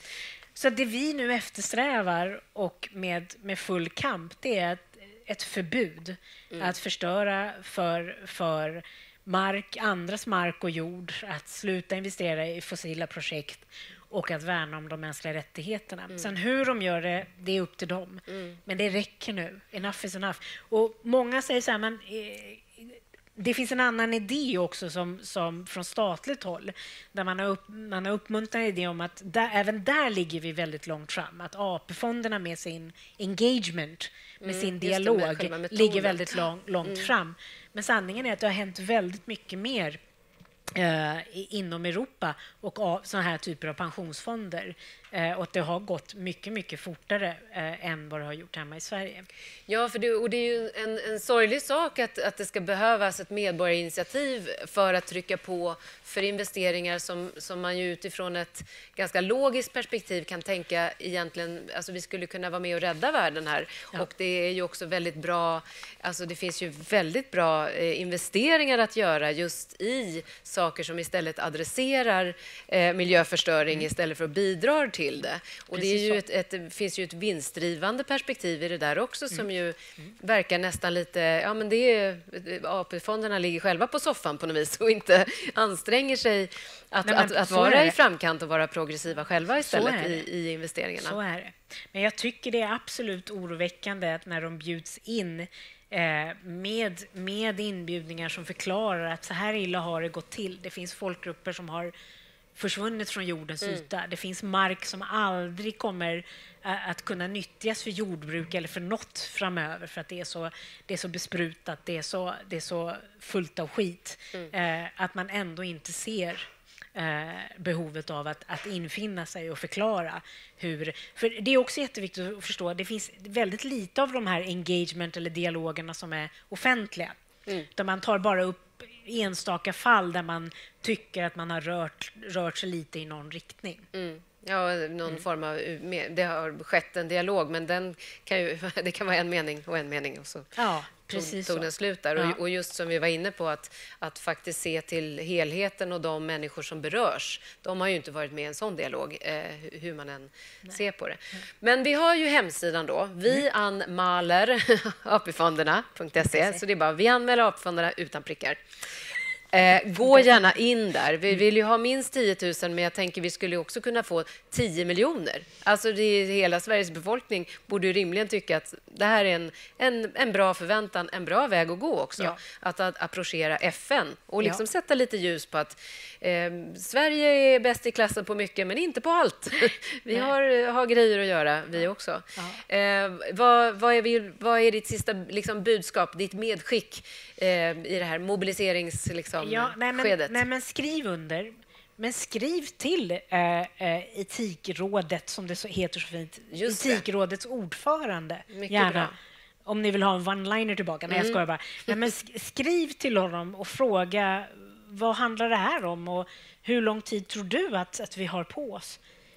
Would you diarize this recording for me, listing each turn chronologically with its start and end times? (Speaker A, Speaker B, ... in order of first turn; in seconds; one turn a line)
Speaker A: 0.5-40.0
Speaker B: 18.3-18.6
Speaker B: 34.4-36.3
Speaker B: 36.8-37.1
Speaker A: 40.7-49.2
Speaker B: 49.7-91.2
Speaker A: 75.7-76.2
Speaker A: 87.0-88.0
Speaker A: 89.6-90.2
Speaker A: 91.0-101.9
Speaker A: 102.5-127.2
Speaker A: 127.7-133.9
Speaker B: 133.9-140.5
Speaker A: 140.6-142.4
Speaker B: 141.1-158.6
Speaker A: 156.3-156.6
Speaker B: 159.5-190.4
Speaker A: 182.3-182.6
Speaker A: 189.4-199.1
Speaker B: 196.5-197.0
Speaker B: 198.5-199.1
Speaker A: 199.6-209.0
Speaker B: 201.1-201.4